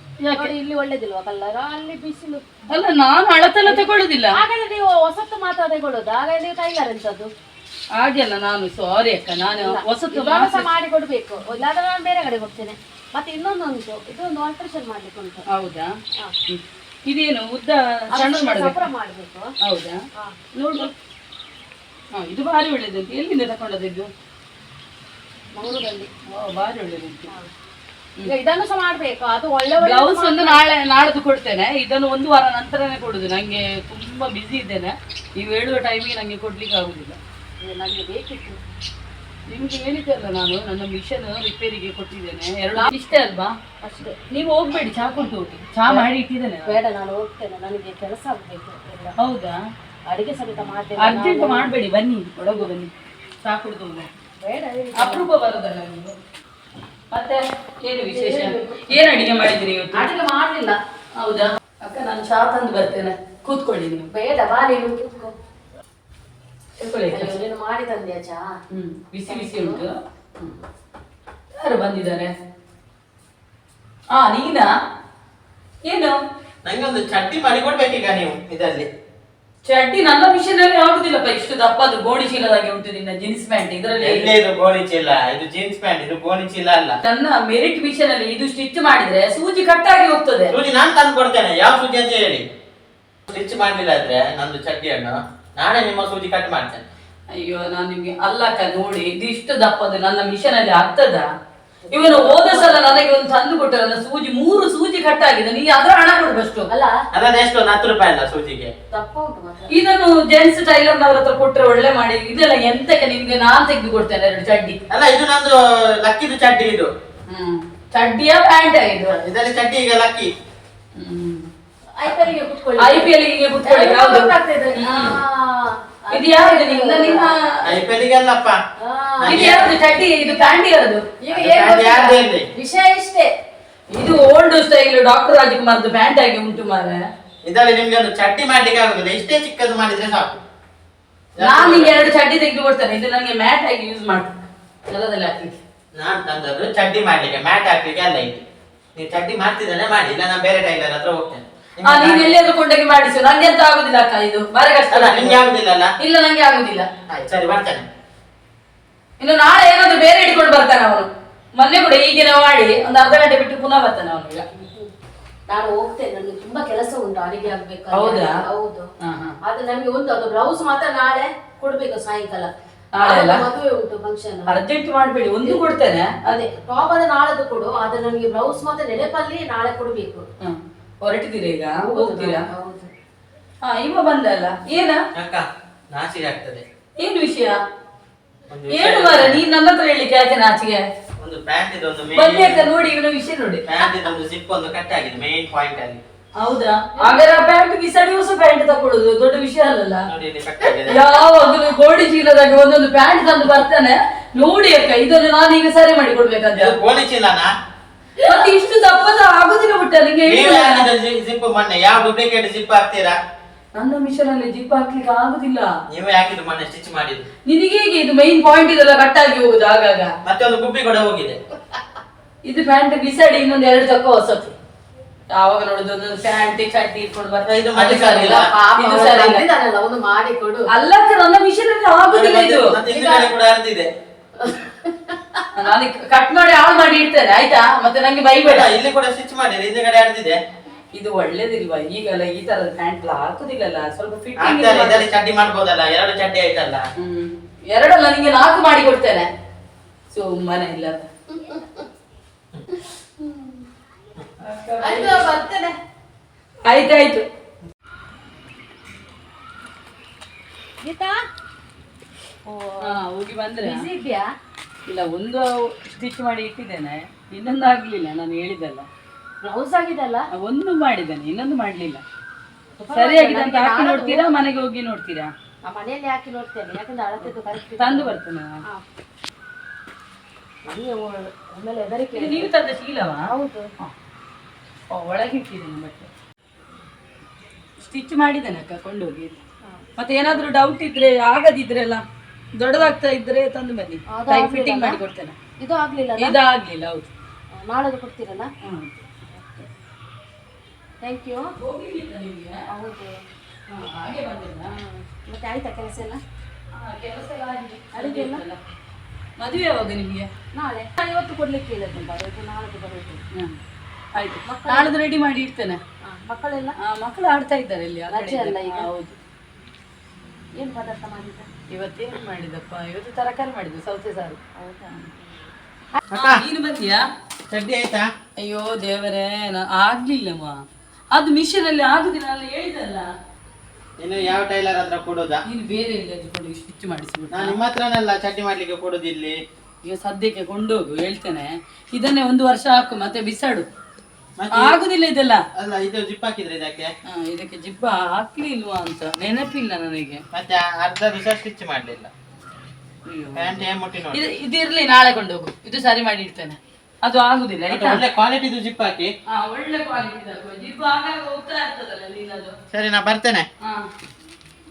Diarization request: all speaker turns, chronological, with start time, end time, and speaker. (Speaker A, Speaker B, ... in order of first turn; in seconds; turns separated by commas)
Speaker A: 0.2-0.5, Speaker B: 0.3-2.5, Speaker A: 2.7-4.3, Speaker B: 3.6-7.3, Speaker A: 8.0-10.7, Speaker B: 9.6-15.4, Speaker A: 15.5-15.9, Speaker A: 16.5-18.8, Speaker B: 18.1-19.5, Speaker A: 19.6-20.0, Speaker B: 20.1-20.9, Speaker A: 20.6-20.9, Speaker A: 22.1-24.1, Speaker B: 25.6-26.1, Speaker A: 26.3-27.3, Speaker B: 28.2-30.6, Speaker A: 29.8-37.2, Speaker B: 37.6-38.6, Speaker A: 39.5-43.5, Speaker B: 43.8-44.2, Speaker A: 44.3-46.8, Speaker B: 46.6-49.1, Speaker A: 49.2-49.6, Speaker B: 50.1-51.7, Speaker A: 51.0-54.1, Speaker B: 54.4-55.3, Speaker A: 54.9-56.1, Speaker A: 57.1-60.1, Speaker B: 58.1-58.9, Speaker B: 59.9-60.8, Speaker A: 61.2-64.1, Speaker B: 64.1-65.3, Speaker A: 66.8-67.3, Speaker B: 67.1-68.5, Speaker A: 68.7-70.5, Speaker B: 69.3-69.8, Speaker A: 71.6-72.3, Speaker A: 74.1-74.7, Speaker A: 75.8-76.2, Speaker C: 76.6-78.9, Speaker A: 79.6-84.3, Speaker C: 84.0-87.0, Speaker A: 87.0-90.5, Speaker C: 90.5-92.4, Speaker C: 93.3-96.8, Speaker A: 97.3-101.3, Speaker B: 101.9-103.0, Speaker A: 101.9-106.7, Speaker B: 106.7-107.0, Speaker C: 107.1-108.7, Speaker B: 108.9-109.7, Speaker A: 109.7-114.8, Speaker C: 114.9-116.9, Speaker A: 117.3-119.2, Speaker C: 119.1-120.3, Speaker A: 120.9-121.5, Speaker B: 122.0-127.3, Speaker A: 122.8-125.2, Speaker A: 126.1-127.8, Speaker C: 127.6-128.6, Speaker B: 128.8-130.7, Speaker C: 129.2-129.7, Speaker A: 129.2-131.1, Speaker B: 131.2-133.3, Speaker C: 131.3-132.5, Speaker A: 133.9-137.0, Speaker C: 137.4-140.4, Speaker C: 141.4-142.0, Speaker A: 141.4-144.4, Speaker A: 144.9-145.6, Speaker C: 145.9-148.4, Speaker C: 148.9-152.4, Speaker A: 151.8-155.4, Speaker C: 154.9-155.9, Speaker A: 156.0-156.9, Speaker C: 157.1-157.9, Speaker A: 159.2-164.4, Speaker B: 164.5-164.9, Speaker B: 165.5-168.9, Speaker A: 167.9-168.4, Speaker A: 169.0-169.3, Speaker B: 169.4-174.6, Speaker A: 172.9-173.5, Speaker A: 174.5-176.2, Speaker B: 176.3-180.2, Speaker A: 180.4-182.4, Speaker B: 181.8-182.9, Speaker A: 183.6-185.0, Speaker C: 185.1-186.6, Speaker A: 187.0-187.6, Speaker C: 188.5-189.4, Speaker A: 188.7-190.8, Speaker C: 191.2-192.7, Speaker A: 192.1-193.7, Speaker C: 193.7-196.0, Speaker A: 196.3-200.1, Speaker C: 200.1-201.1, Speaker A: 200.8-206.8, Speaker C: 206.5-207.5, Speaker A: 208.2-210.9, Speaker C: 210.2-213.2, Speaker A: 213.8-215.7, Speaker C: 215.9-217.2, Speaker A: 217.4-220.1, Speaker C: 220.2-221.4, Speaker A: 222.4-224.5, Speaker A: 225.3-229.4, Speaker C: 227.4-228.5, Speaker B: 228.2-230.7, Speaker A: 230.7-232.8, Speaker C: 232.1-233.9, Speaker B: 232.9-233.3, Speaker B: 234.4-235.1, Speaker A: 235.5-238.7, Speaker C: 238.4-240.4, Speaker A: 240.9-245.1, Speaker C: 244.4-246.9, Speaker A: 247.0-249.3, Speaker A: 250.1-251.1, Speaker B: 251.3-251.8, Speaker B: 253.2-253.6, Speaker A: 254.4-255.3, Speaker B: 254.8-255.8, Speaker A: 256.6-257.2, Speaker B: 260.8-261.2, Speaker B: 262.4-263.0, Speaker A: 262.9-263.9, Speaker B: 263.6-264.3, Speaker A: 264.9-268.9, Speaker B: 269.4-270.2, Speaker A: 270.3-272.0, Speaker B: 272.8-274.3, Speaker A: 272.9-275.3, Speaker B: 275.7-278.1, Speaker A: 277.8-278.6, Speaker B: 280.6-282.5, Speaker A: 282.1-283.3, Speaker B: 283.2-283.7, Speaker A: 284.9-286.1, Speaker A: 287.8-289.4, Speaker A: 290.0-292.0, Speaker A: 292.6-295.4, Speaker B: 294.1-295.0, Speaker B: 295.6-296.3, Speaker A: 296.2-297.1, Speaker B: 297.5-298.5, Speaker A: 298.6-298.9, Speaker B: 299.3-299.7, Speaker B: 301.0-301.5, Speaker A: 301.6-302.6, Speaker B: 302.7-303.1, Speaker A: 303.7-304.7, Speaker B: 304.7-306.2, Speaker A: 306.7-308.6, Speaker B: 307.9-308.4, Speaker A: 309.4-310.3, Speaker B: 310.5-313.2, Speaker A: 314.1-315.8, Speaker B: 314.4-314.9, Speaker B: 316.0-316.8, Speaker A: 316.8-319.2, Speaker B: 318.1-318.9, Speaker B: 320.6-321.5, Speaker A: 321.7-324.4, Speaker B: 324.6-325.5, Speaker C: 326.1-326.4, Speaker A: 326.1-327.0, Speaker C: 327.5-328.1, Speaker A: 328.4-330.6, Speaker A: 331.1-333.1, Speaker C: 334.0-335.4, Speaker A: 335.4-337.6, Speaker C: 337.3-339.4, Speaker A: 339.8-343.6, Speaker C: 344.4-344.8, Speaker A: 344.5-345.4, Speaker C: 345.6-346.9, Speaker A: 347.1-350.2, Speaker C: 350.3-352.1, Speaker A: 353.0-358.0, Speaker C: 353.3-354.2, Speaker C: 357.7-359.1, Speaker A: 359.3-362.6, Speaker C: 362.7-363.5, Speaker A: 363.6-363.9